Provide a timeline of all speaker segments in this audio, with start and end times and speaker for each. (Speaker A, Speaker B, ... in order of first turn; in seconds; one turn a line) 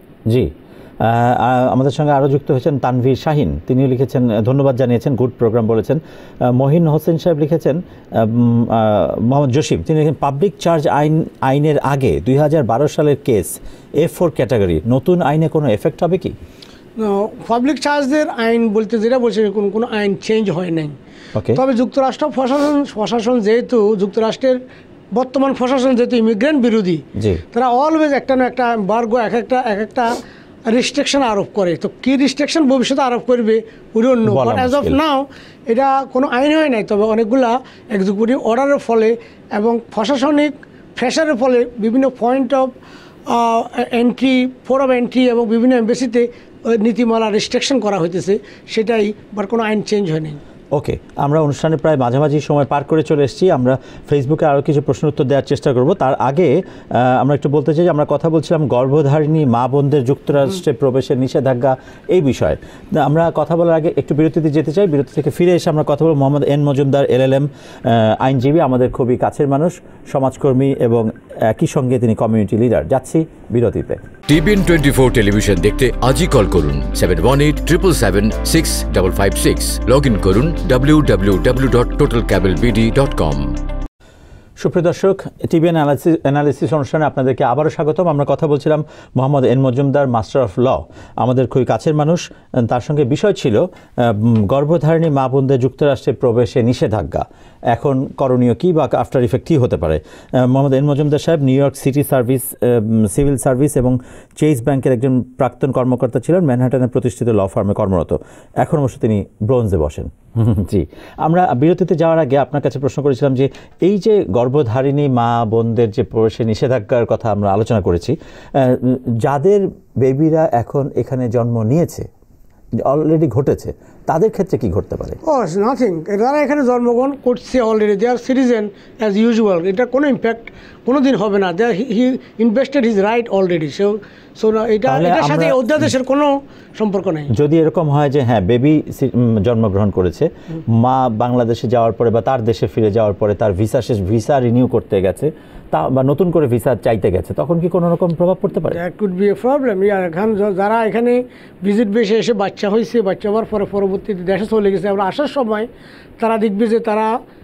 Speaker A: 0.3-16.4
Speaker B: 17.0-20.9
Speaker A: 21.4-21.6
Speaker B: 21.5-24.6
Speaker B: 25.1-30.1
Speaker A: 27.2-27.4
Speaker B: 30.7-42.7
Speaker A: 34.3-35.0
Speaker B: 43.3-50.4
Speaker A: 50.7-74.0
Speaker C: 74.3-83.5
Speaker A: 84.6-122.1
Speaker A: 122.8-125.2
Speaker B: 125.2-137.3
Speaker A: 134.9-135.9
Speaker A: 137.3-148.8
Speaker B: 148.7-155.7
Speaker B: 156.2-157.1